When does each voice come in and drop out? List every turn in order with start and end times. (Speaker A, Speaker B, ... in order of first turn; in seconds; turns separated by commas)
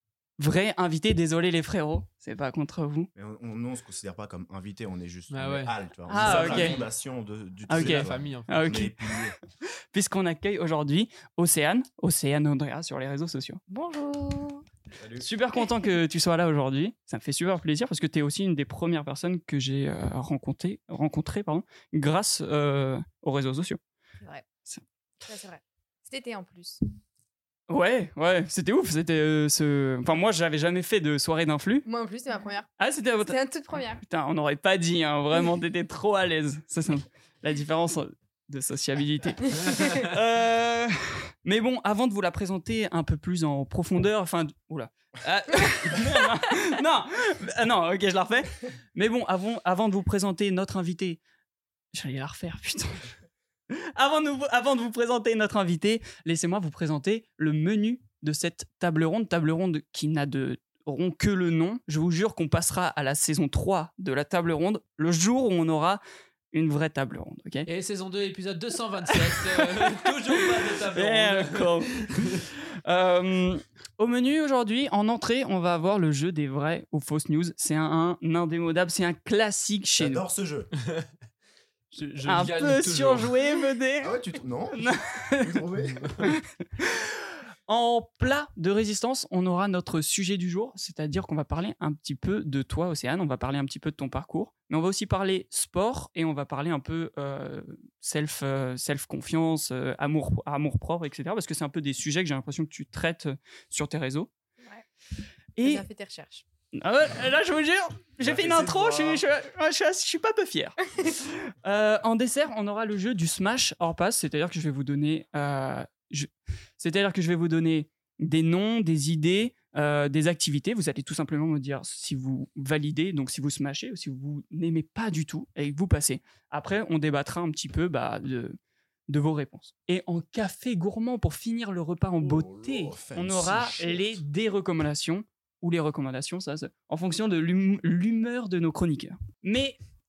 Speaker A: 0.4-3.1, Speaker B: 3.1-9.4, Speaker C: 5.3-6.9, Speaker D: 6.1-6.8, Speaker A: 6.1-6.8, Speaker A: 7.7-9.2, Speaker C: 7.7-8.8, Speaker A: 9.9-13.6, Speaker D: 13.7-14.6, Speaker B: 15.0-15.3, Speaker A: 15.2-23.8, Speaker D: 25.2-26.8, Speaker A: 27.7-31.9, Speaker D: 31.9-32.7, Speaker A: 32.8-33.4, Speaker D: 33.3-34.0, Speaker A: 34.0-51.2, Speaker A: 51.9-53.1, Speaker A: 53.7-66.0, Speaker A: 66.5-67.7, Speaker C: 67.7-72.4, Speaker A: 69.1-80.2, Speaker B: 80.0-80.7, Speaker C: 81.9-83.3, Speaker A: 82.3-84.2, Speaker B: 84.0-86.3, Speaker A: 84.8-85.5, Speaker A: 86.2-104.3, Speaker A: 105.6-105.8, Speaker D: 105.6-106.4, Speaker A: 106.8-139.8, Speaker B: 108.2-109.2, Speaker B: 132.2-134.2